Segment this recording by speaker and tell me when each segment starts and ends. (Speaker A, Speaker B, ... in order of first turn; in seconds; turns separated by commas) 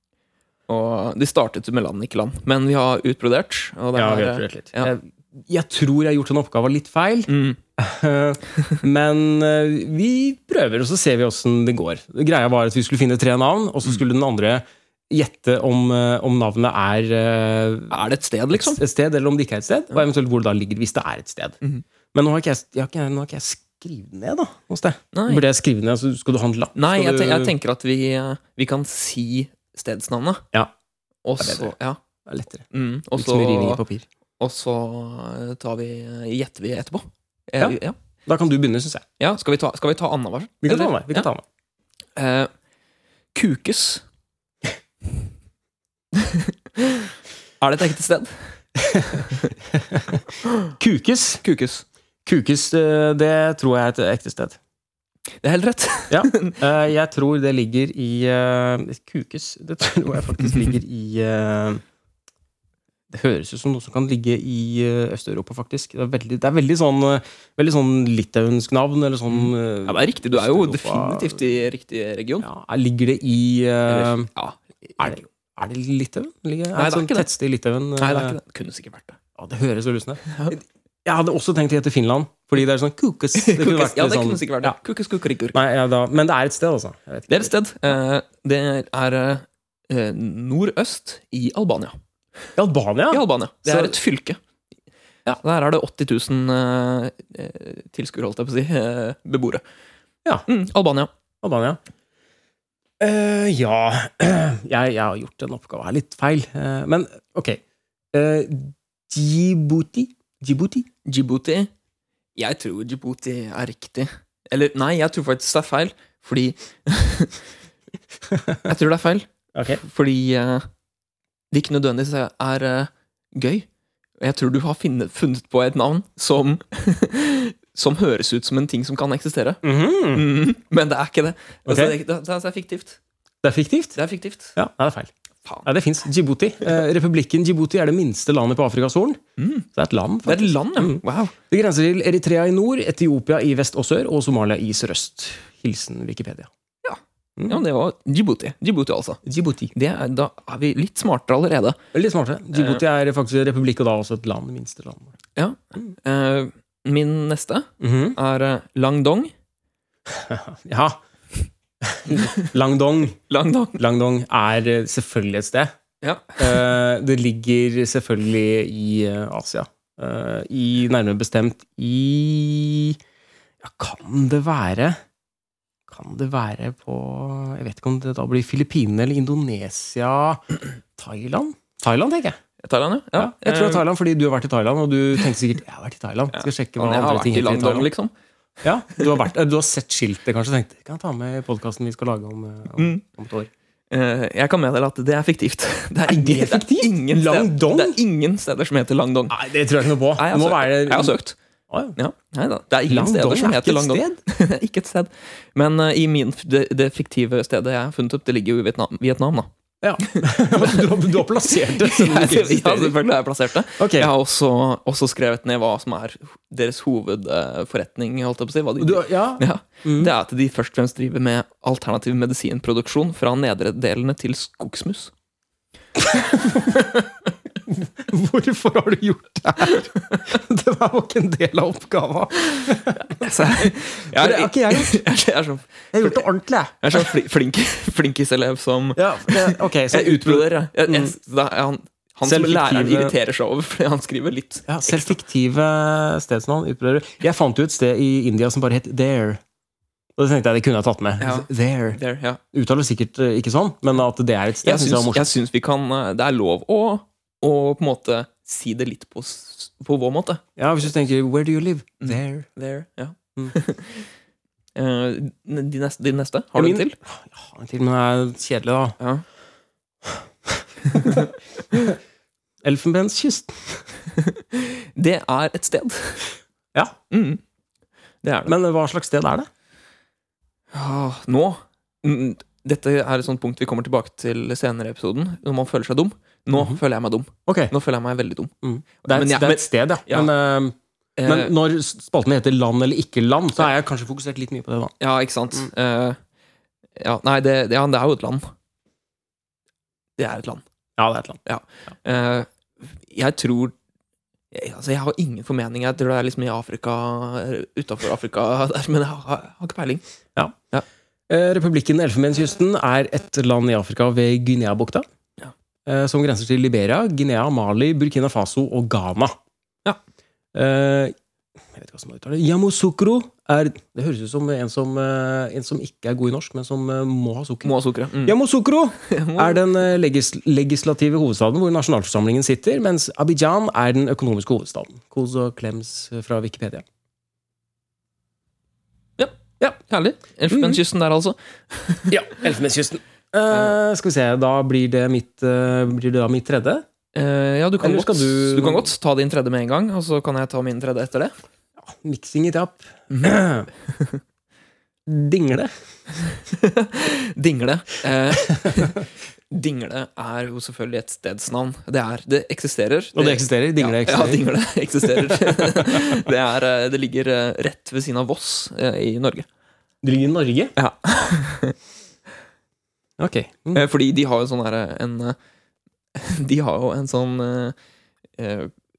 Speaker A: 0.7-4.9, Speaker B: 3.9-17.9, Speaker A: 7.3-7.6, Speaker A: 17.9-18.8, Speaker B: 18.5-21.6, Speaker B: 22.1-27.5, Speaker A: 25.1-25.4, Speaker A: 26.7-30.4, Speaker A: 31.2-32.0, Speaker B: 31.4-31.7, Speaker B: 32.2-34.0, Speaker A: 32.7-33.8, Speaker A: 34.4-38.0, Speaker B: 37.6-39.0, Speaker A: 39.2-41.3, Speaker B: 40.6-41.4, Speaker A: 42.1-42.5, Speaker A: 43.3-44.0, Speaker A: 46.1-47.1, Speaker A: 47.6-48.5, Speaker B: 48.8-51.4, Speaker A: 49.2-49.5, Speaker A: 51.4-51.8, Speaker B: 52.2-54.6, Speaker A: 55.4-56.6, Speaker B: 56.1-61.8, Speaker B: 63.1-71.4, Speaker A: 69.3-72.5, Speaker B: 72.4-74.3, Speaker A: 73.9-75.2, Speaker B: 75.0-78.4, Speaker A: 76.7-77.3, Speaker A: 78.0-79.2, Speaker B: 79.4-84.8, Speaker A: 80.2-80.6, Speaker A: 83.3-85.6, Speaker B: 85.5-87.5, Speaker A: 87.3-92.0, Speaker B: 92.5-94.0, Speaker A: 93.1-94.4, Speaker A: 95.3-99.6, Speaker A: 100.5-101.1, Speaker B: 101.4-101.8, Speaker B: 103.0-107.6, Speaker B: 108.1-110.9, Speaker A: 111.0-111.7, Speaker A: 112.3-117.4, Speaker B: 118.3-118.7, Speaker A: 118.6-120.7, Speaker B: 119.5-119.8, Speaker A: 121.5-123.7, Speaker A: 124.2-133.0, Speaker B: 129.6-130.3, Speaker B: 131.7-132.0, Speaker B: 133.4-134.0, Speaker A: 133.9-134.5, Speaker B: 134.6-135.1, Speaker B: 135.6-139.2, Speaker A: 139.4-139.7, Speaker B: 139.7-146.5, Speaker A: 140.2-141.3, Speaker A: 146.8-149.2, Speaker B: 149.2-149.7, Speaker A: 149.7-151.8, Speaker B: 151.9-155.1, Speaker A: 152.5-152.8, Speaker A: 155.3-159.3, Speaker B: 157.8-158.2, Speaker B: 160.1-161.0, Speaker B: 161.8-163.2, Speaker A: 162.1-162.5, Speaker A: 163.3-163.8, Speaker B: 163.7-165.7, Speaker A: 166.0-166.7, Speaker B: 166.4-173.0, Speaker B: 173.6-175.0, Speaker B: 175.9-182.4, Speaker A: 182.6-183.8, Speaker B: 183.2-187.9, Speaker A: 186.3-188.1, Speaker B: 188.6-193.5, Speaker A: 192.8-193.0, Speaker A: 193.9-199.4, Speaker B: 196.1-198.0, Speaker B: 199.3-201.1, Speaker A: 200.1-201.3, Speaker B: 201.7-202.0, Speaker A: 201.9-209.5, Speaker B: 202.9-204.2, Speaker B: 209.8-213.0, Speaker A: 210.0-225.1, Speaker B: 213.8-214.1, Speaker B: 218.8-220.1, Speaker B: 226.0-227.1, Speaker B: 227.7-235.0, Speaker A: 229.6-230.2, Speaker A: 232.4-236.3, Speaker B: 235.9-237.1, Speaker A: 236.8-245.2, Speaker B: 238.9-241.1, Speaker B: 242.2-243.1, Speaker B: 244.7-249.4, Speaker B: 250.2-252.0, Speaker A: 251.2-252.4, Speaker B: 252.5-255.3, Speaker A: 254.6-260.4, Speaker B: 260.6-262.5, Speaker A: 262.0-264.1, Speaker A: 264.7-266.9, Speaker B: 266.6-268.9, Speaker A: 269.0-269.2, Speaker B: 270.0-272.0, Speaker A: 270.9-271.2, Speaker B: 272.6-273.8, Speaker A: 274.1-276.3, Speaker A: 277.1-277.4, Speaker A: 278.2-278.5, Speaker B: 278.4-279.5, Speaker A: 280.7-290.3, Speaker B: 287.5-287.7, Speaker B: 288.6-294.9, Speaker A: 291.2-291.5, Speaker A: 295.0-296.2, Speaker A: 297.0-298.4, Speaker A: 300.2-300.6, Speaker B: 301.0-301.4, Speaker A: 301.4-303.7, Speaker A: 304.5-310.0, Speaker B: 311.3-315.0, Speaker B: 315.9-319.3, Speaker B: 320.5-321.1, Speaker B: 321.7-336.8, Speaker A: 327.6-328.4, Speaker A: 329.0-329.6, Speaker A: 339.2-342.1, Speaker B: 340.5-340.8, Speaker B: 342.1-346.9, Speaker A: 347.1-351.3, Speaker B: 347.8-348.9, Speaker B: 351.8-353.7, Speaker A: 353.9-354.2, Speaker B: 355.1-355.7, Speaker A: 356.3-369.4, Speaker B: 363.1-364.5, Speaker B: 365.0-366.0, Speaker B: 370.0-370.7, Speaker A: 370.8-371.8, Speaker B: 373.2-373.8, Speaker A: 373.7-375.4, Speaker A: 376.1-377.8, Speaker A: 378.4-378.7